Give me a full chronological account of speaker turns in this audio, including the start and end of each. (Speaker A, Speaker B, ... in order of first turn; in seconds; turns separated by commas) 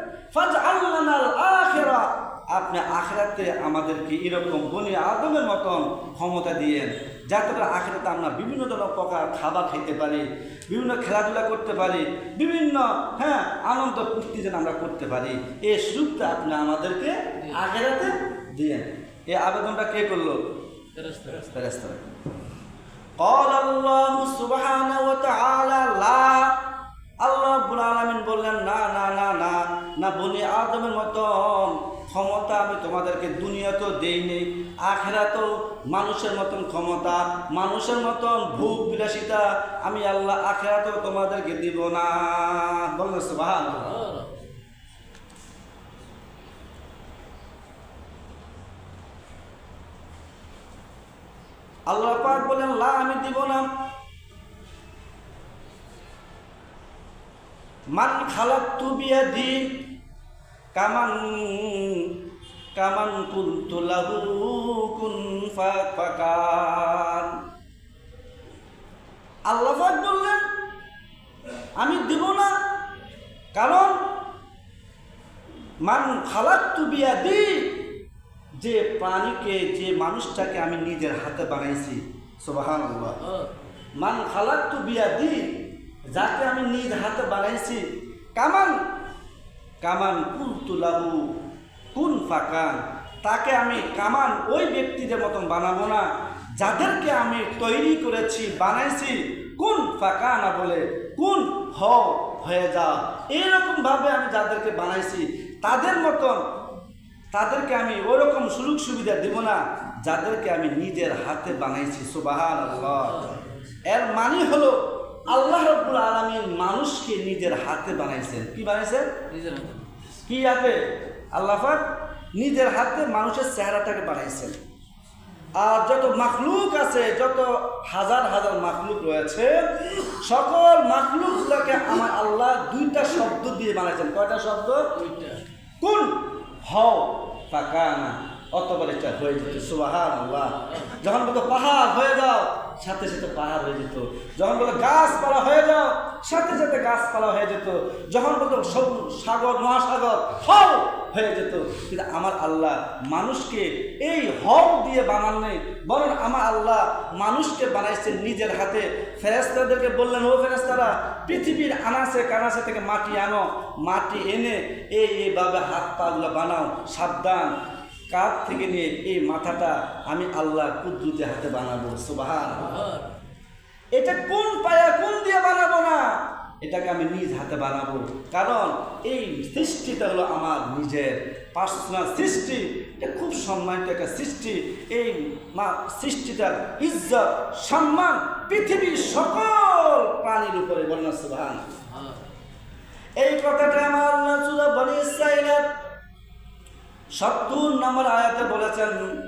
Speaker A: 0.3-20.4, Speaker B: 21.0-21.5, Speaker A: 21.3-22.2, Speaker A: 23.2-26.6, Speaker A: 27.2-44.1, Speaker B: 43.9-44.4, Speaker A: 51.9-53.7, Speaker A: 58.0-59.8, Speaker A: 60.8-62.1, Speaker A: 62.8-67.4, Speaker A: 69.5-70.4, Speaker A: 71.8-72.5, Speaker A: 73.5-74.0, Speaker A: 75.8-77.9, Speaker A: 78.6-83.2, Speaker A: 84.0-85.5, Speaker A: 86.2-87.8, Speaker A: 88.4-88.8, Speaker A: 89.8-91.4, Speaker A: 91.9-106.4, Speaker A: 107.3-119.1, Speaker B: 119.3-119.9, Speaker A: 120.3-120.8, Speaker A: 121.3-124.6, Speaker A: 125.6-134.9, Speaker B: 134.9-135.4, Speaker A: 135.8-167.5, Speaker B: 140.6-141.0, Speaker A: 168.1-172.9, Speaker B: 172.8-173.1, Speaker A: 174.0-191.7, Speaker B: 191.9-192.2, Speaker A: 193.2-195.7, Speaker A: 197.2-199.0